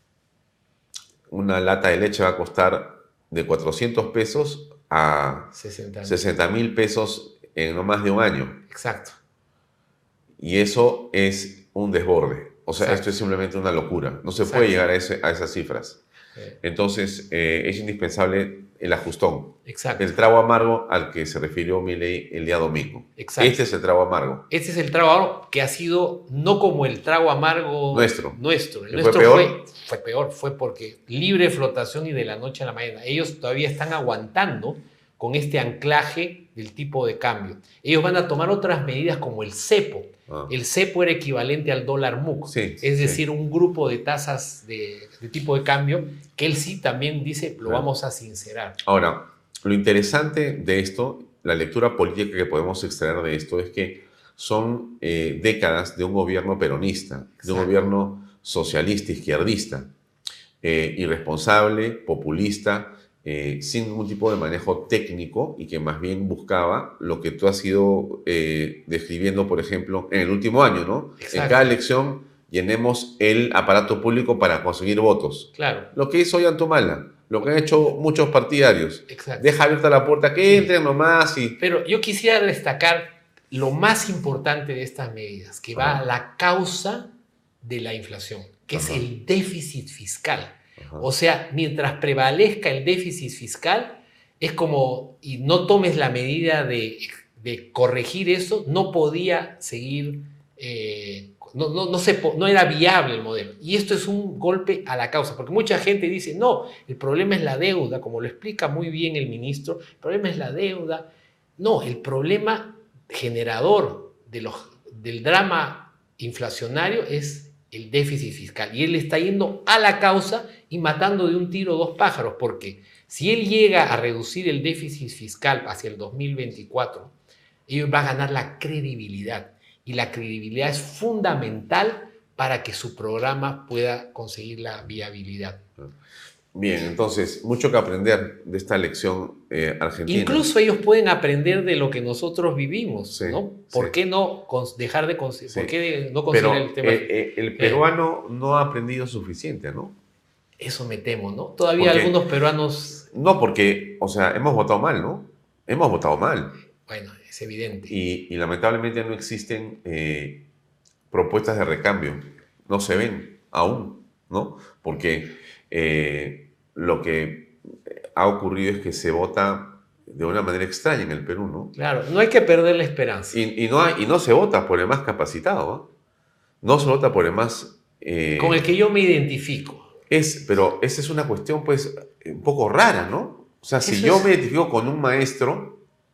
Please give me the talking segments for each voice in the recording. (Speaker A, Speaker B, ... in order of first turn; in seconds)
Speaker A: 1.3-8.6, 10.4-16.0, 16.6-24.5, 27.9-29.6, 40.3-40.5, 42.5-43.2, 48.8-59.9, 60.6-81.6, 85.8-86.0, 88.7-89.0, 90.8-91.1, 136.5-140.5, 143.1-143.9, 145.5-145.7, 146.3-150.0, 151.8-152.2, 153.1-156.6, 157.9-160.5, 161.1-171.7, 173.3-175.9, 176.6-178.7, 180.1-185.8
Speaker B: 5.5-6.2, 8.7-9.2, 12.8-13.1, 14.4-14.8, 19.6-20.1, 23.1-23.6, 24.5-48.8, 57.4-57.7, 71.2-71.8, 75.5-75.9, 79.1-79.5, 80.4-80.7, 81.6-87.1, 87.6-127.1, 127.7-135.6, 140.1-147.8, 150.6-153.1, 156.8-157.9, 171.7-173.4, 178.4-179.9, 183.8-184.3